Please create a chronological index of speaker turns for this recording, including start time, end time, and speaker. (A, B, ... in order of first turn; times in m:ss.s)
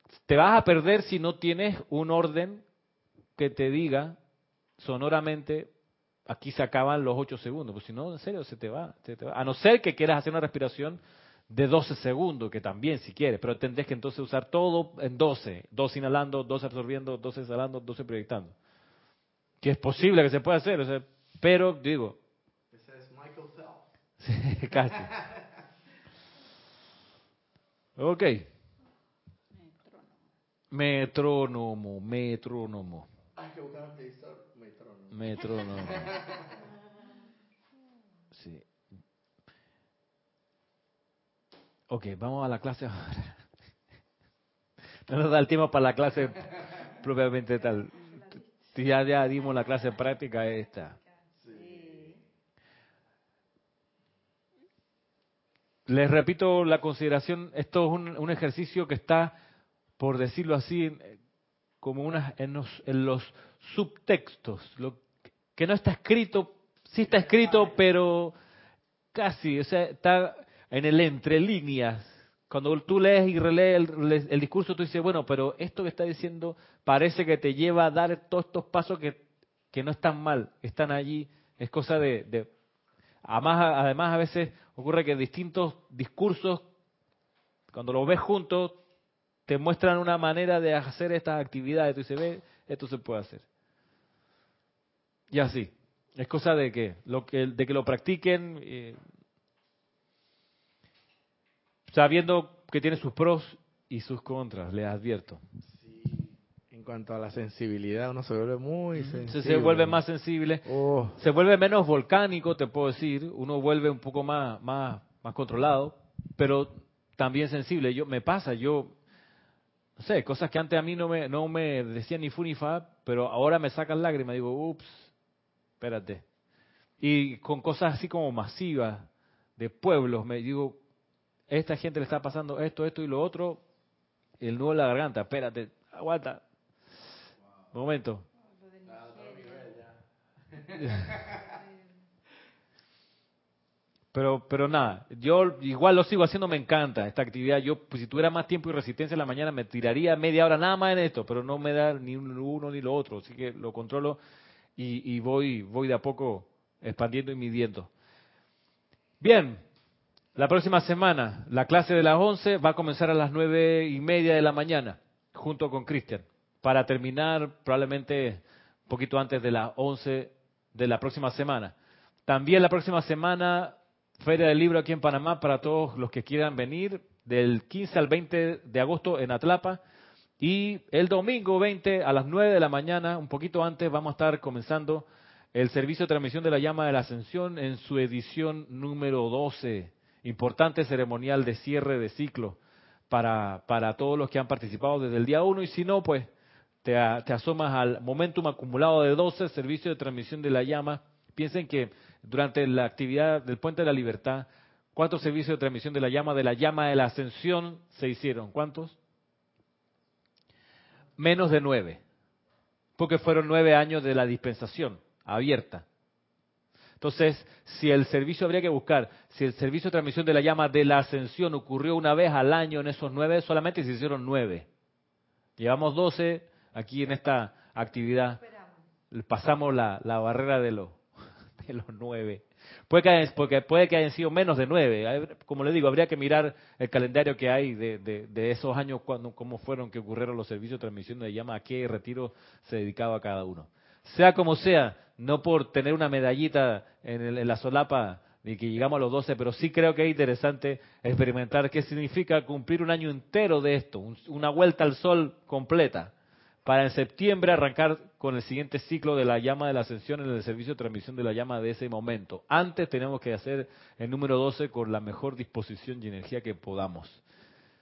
0:00.3-0:02.6 A
0:03.4-0:04.2 A
0:04.8-0:05.7 A
0:06.3-0:18.5 A
0:19.6-0:22.2 A
0:22.7-0:23.8 B
0:24.2-0:25.1 A
0:25.0-0:25.4 B
0:28.0-0:28.5 A
0:30.7-0:33.1 A
0:33.4-0:36.5 B
0:35.1-0:36.1 A
0:38.3-0:38.6 A
0:41.9-0:43.4 A
0:45.1-0:51.0 A
0:51.4-0:52.2 B
0:55.9-0:59.3 A
1:00.0-1:01.2 A
1:01.8-1:05.0 A
1:05.6-1:08.3 A
1:07.1-1:07.7 B
1:09.1-1:22.5 A
1:23.2-1:26.7 A
1:27.7-1:28.8 A
1:29.5-1:33.4 A
1:35.3-1:39.0 A
1:41.9-1:45.4 A
1:45.6-1:50.0 B
1:49.0-1:59.0 A
1:50.6-1:51.2 B
2:00.0-2:05.1 A
2:05.8-2:06.2 A
2:07.0-2:10.8 A
2:11.5-2:13.6 A
2:14.4-2:16.4 A
2:17.7-2:18.2 A
2:18.8-2:20.0 B
2:20.5-2:21.5 B
2:20.8-2:21.1 A
2:24.1-2:34.2 A
2:34.8-2:37.9 A
2:39.2-2:39.6 A
2:40.4-2:51.7 A
2:52.3-2:59.8 A
3:00.4-3:12.6 A
3:13.1-3:16.3 A
3:16.8-3:29.0 A
3:31.2-3:32.0 A
3:33.0-3:35.8 A
3:37.0-3:44.7 A
3:45.6-3:48.4 A
3:49.1-3:51.0 A
3:51.6-4:16.1 A
4:16.6-4:27.2 A